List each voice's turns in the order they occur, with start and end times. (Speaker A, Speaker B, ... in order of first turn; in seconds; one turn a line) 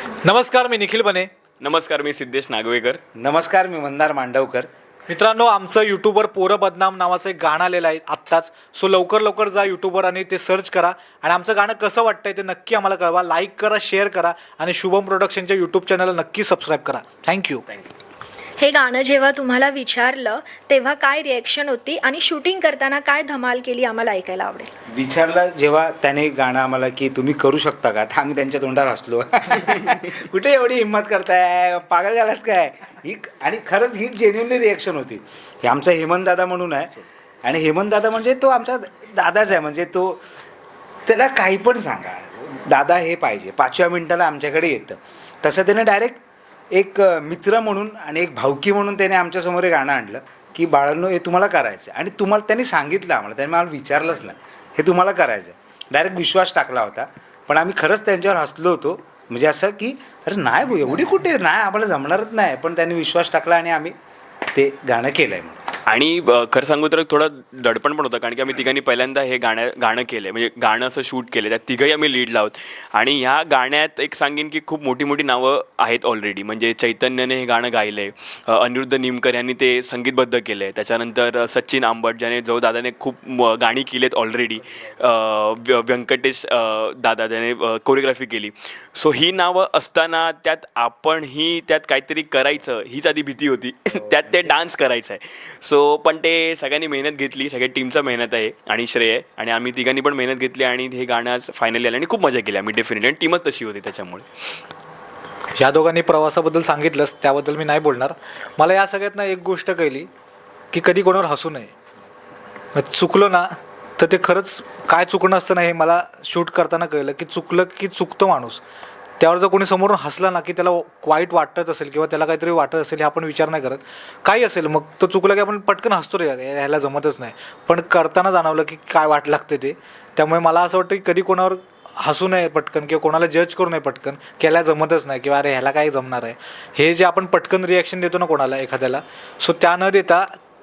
Speaker A: 0.2-1.3
Speaker B: 1.6-3.0
Speaker C: 3.2-4.7
Speaker A: 5.1-17.6
Speaker D: 18.6-24.7
Speaker C: 24.9-36.9
Speaker C: 37.5-40.2
Speaker C: 41.1-46.2
Speaker C: 46.7-64.0
Speaker C: 64.5-65.6
Speaker B: 65.9-104.2
Speaker A: 105.6-110.1
Speaker A: 110.7-111.7
Speaker A: 112.8-118.6
Speaker A: 119.2-140.3